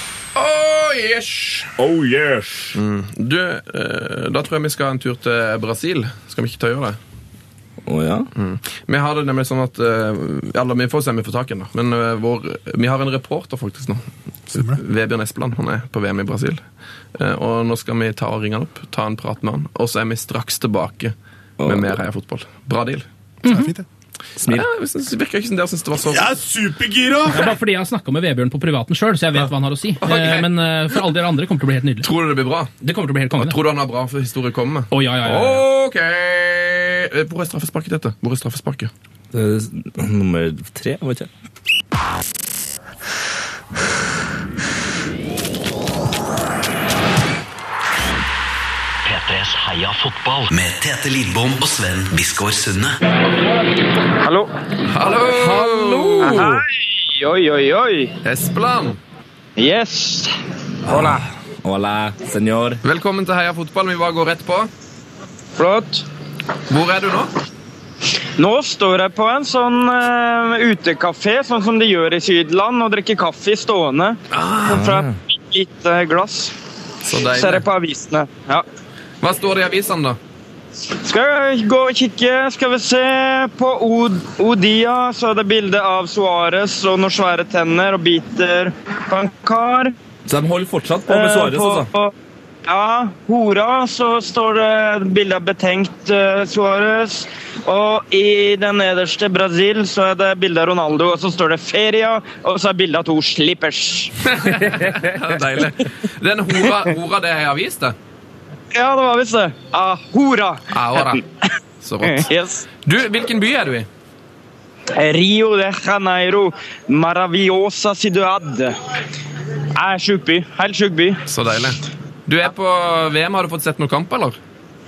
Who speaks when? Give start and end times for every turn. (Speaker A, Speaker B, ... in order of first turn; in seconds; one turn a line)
Speaker A: 0.3-1.7
Speaker B: 1.8-2.8
Speaker A: 2.8-7.0
Speaker B: 7.9-8.3
Speaker A: 8.4-16.6
Speaker C: 14.6-14.8
Speaker A: 17.1-23.1
Speaker B: 21.6-22.0
Speaker D: 23.4-23.7
Speaker C: 23.4-23.9
Speaker A: 24.5-26.3
Speaker C: 26.1-27.6
Speaker D: 27.3-32.1
Speaker A: 30.0-30.5
Speaker A: 32.0-32.7
Speaker D: 32.8-33.6
Speaker A: 33.4-38.9
Speaker D: 34.9-35.6
Speaker B: 39.3-41.3
Speaker E: 49.0-53.0
Speaker F: 54.2-54.5
Speaker A: 54.9-56.6
Speaker B: 55.3-56.6
Speaker F: 56.2-58.2
Speaker A: 58.2-59.0
Speaker F: 59.6-60.3
Speaker B: 60.9-62.8
Speaker F: 60.9-61.2
Speaker A: 62.8-64.7
Speaker F: 65.6-66.1
Speaker A: 66.7-67.3
Speaker F: 68.4-74.2
Speaker A: 74.3-74.9
Speaker B: 74.7-75.2
Speaker F: 74.7-76.5
Speaker A: 77.0-77.7
Speaker F: 77.3-78.7
Speaker A: 79.2-80.2
Speaker F: 81.0-90.0
Speaker B: 90.3-91.9
Speaker F: 91.1-92.1
Speaker F: 92.7-104.1
Speaker A: 104.3-108.0
Speaker F: 108.7-111.2
Speaker A: 110.7-111.2
Speaker A: 111.8-112.3
Speaker F: 112.0-112.7
Speaker A: 112.8-113.9
Speaker F: 115.0-118.8
Speaker F: 119.8-121.2
Speaker A: 121.3-124.4